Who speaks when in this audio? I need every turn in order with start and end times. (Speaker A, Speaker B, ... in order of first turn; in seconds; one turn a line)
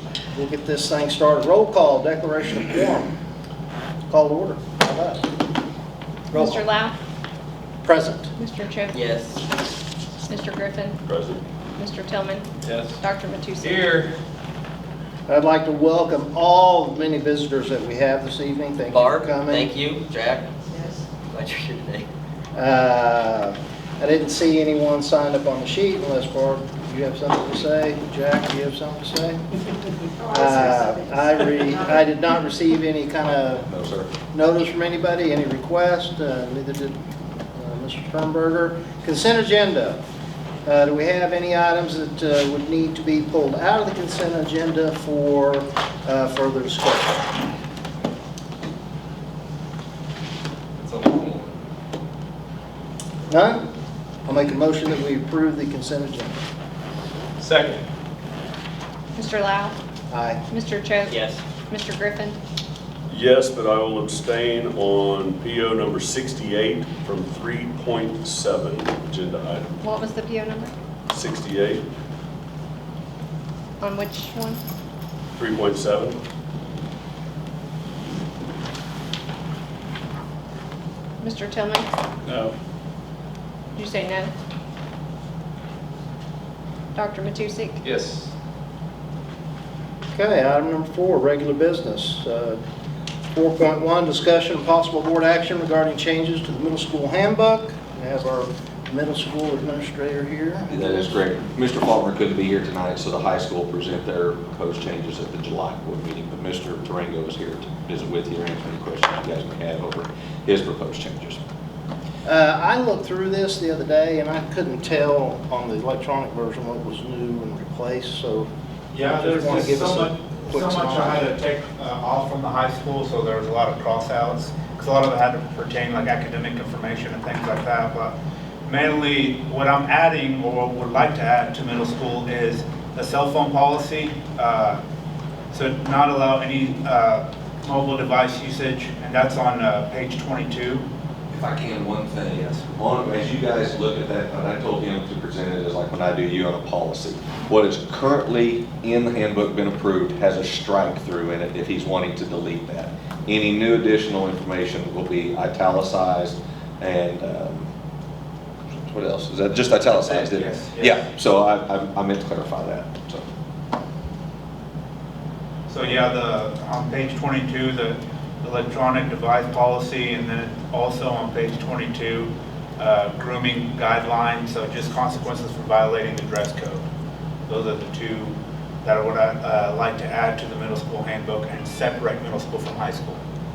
Speaker A: 0.3-3.1
Speaker A: 4.1-5.2
Speaker A: 6.3-6.6
Speaker B: 6.3-7.0
Speaker A: 7.8-8.3
Speaker B: 8.4-9.1
Speaker C: 8.9-9.4
Speaker B: 10.3-11.0
Speaker D: 11.1-11.4
Speaker B: 11.8-14.0
Speaker E: 12.6-13.0
Speaker E: 13.6-14.1
Speaker A: 15.3-19.7
Speaker C: 18.9-22.1
Speaker A: 22.6-29.4
Speaker A: 30.3-33.7
Speaker F: 33.7-34.1
Speaker A: 34.3-37.0
Speaker A: 37.5-40.0
Speaker A: 40.7-47.3
Speaker E: 50.8-51.5
Speaker A: 53.3-53.7
Speaker A: 54.2-56.4
Speaker E: 57.4-57.8
Speaker B: 59.2-59.8
Speaker A: 60.1-60.4
Speaker B: 60.5-62.4
Speaker C: 61.1-61.4
Speaker D: 63.1-69.8
Speaker B: 69.8-70.7
Speaker D: 71.1-71.8
Speaker B: 73.8-74.6
Speaker D: 75.4-76.2
Speaker B: 81.2-81.9
Speaker E: 82.2-82.5
Speaker B: 83.7-84.3
Speaker B: 87.0-87.8
Speaker E: 87.8-88.3
Speaker A: 90.1-92.6
Speaker A: 93.3-101.1
Speaker F: 100.7-111.4
Speaker A: 112.2-118.5
Speaker G: 118.9-128.1
Speaker A: 119.0-121.3
Speaker G: 128.7-134.8
Speaker G: 135.5-140.8
Speaker F: 141.3-157.7
Speaker F: 158.7-163.2
Speaker G: 159.9-161.0
Speaker G: 165.7-176.8
Speaker G: 177.5-183.2